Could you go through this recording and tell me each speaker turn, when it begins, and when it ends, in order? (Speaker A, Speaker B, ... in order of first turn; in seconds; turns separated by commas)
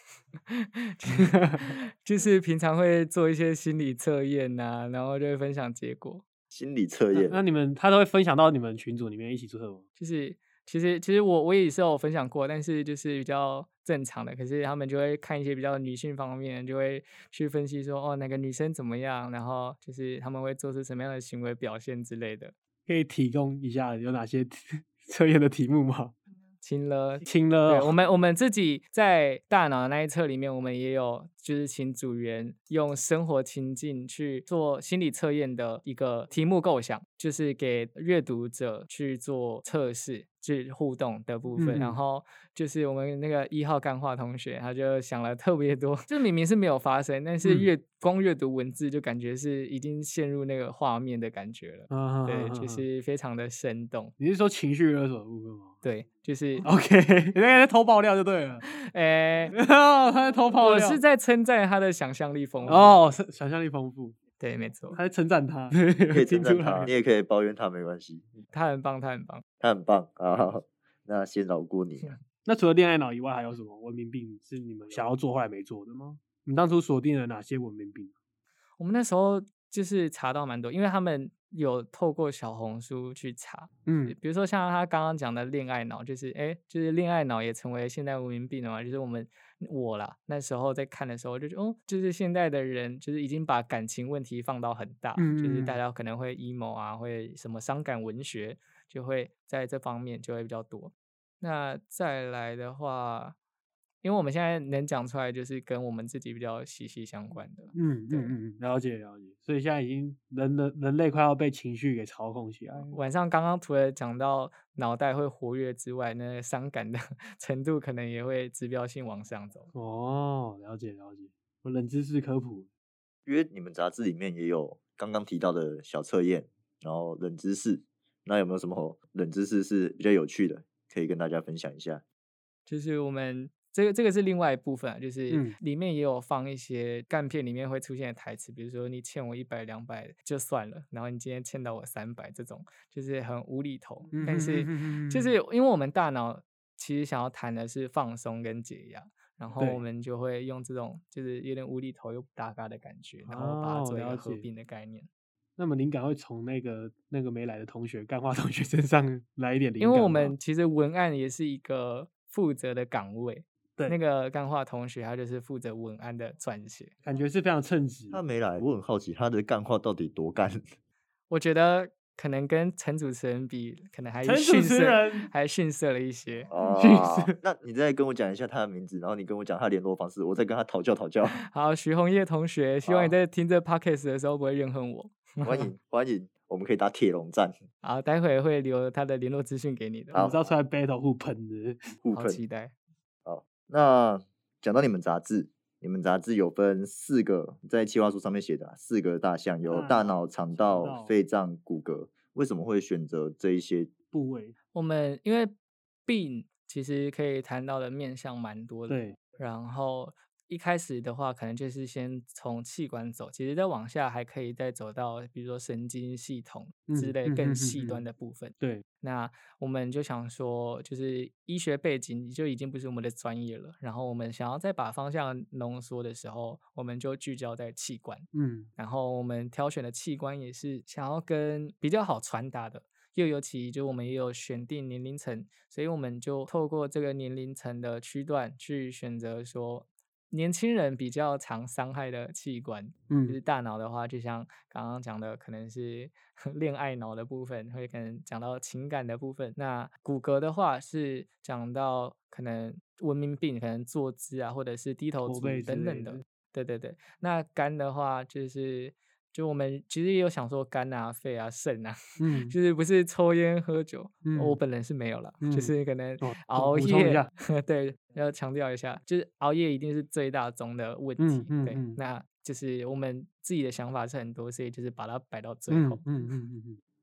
Speaker A: 0.4-6.2, Speaker B: 1.1-1.7, Speaker C: 6.5-7.4, Speaker B: 7.1-9.8, Speaker A: 10.0-22.5, Speaker B: 22.9-26.2, Speaker A: 26.6-54.1, Speaker B: 27.2-27.9, Speaker B: 41.6-42.0, Speaker B: 47.4-47.7, Speaker B: 51.9-52.9, Speaker B: 54.2-55.8, Speaker A: 55.8-56.7, Speaker B: 56.6-58.6, Speaker A: 58.7-59.5, Speaker B: 59.5-61.0, Speaker A: 60.6-63.0, Speaker B: 62.7-64.2, Speaker A: 64.4-65.0, Speaker B: 64.9-66.9, Speaker C: 66.1-68.3, Speaker A: 68.5-69.4, Speaker C: 69.6-72.2, Speaker B: 72.5-78.1, Speaker A: 78.8-103.4, Speaker B: 83.9-84.2, Speaker B: 95.2-95.8, Speaker A: 104.0-108.4, Speaker B: 107.7-113.0, Speaker A: 112.9-119.7, Speaker B: 119.7-122.7, Speaker C: 123.3-132.0, Speaker A: 132.7-155.1, Speaker B: 135.3-135.6, Speaker B: 144.1-145.3, Speaker B: 149.6-149.8, Speaker B: 153.3-154.5, Speaker B: 155.6-160.3, Speaker A: 159.8-166.9, Speaker B: 167.0-168.2, Speaker C: 168.1-170.7, Speaker A: 171.3-176.5, Speaker B: 174.2-175.3, Speaker C: 176.5-181.4, Speaker B: 176.7-177.3, Speaker A: 181.3-185.7, Speaker C: 182.8-183.2, Speaker C: 185.4-187.6, Speaker A: 187.8-190.2, Speaker C: 190.1-190.5, Speaker B: 190.1-191.8, Speaker C: 192.0-192.4, Speaker A: 192.1-192.7, Speaker C: 193.2-203.9, Speaker B: 199.7-201.2, Speaker B: 204.1-204.6, Speaker A: 204.7-205.5, Speaker A: 206.1-276.0, Speaker B: 208.9-209.2, Speaker B: 216.9-218.1, Speaker B: 218.6-218.8, Speaker B: 228.3-228.7, Speaker B: 243.1-243.4, Speaker B: 255.2-256.2, Speaker B: 262.2-262.6, Speaker B: 264.2-264.6, Speaker B: 265.4-267.3, Speaker B: 271.2-272.0, Speaker B: 275.7-276.8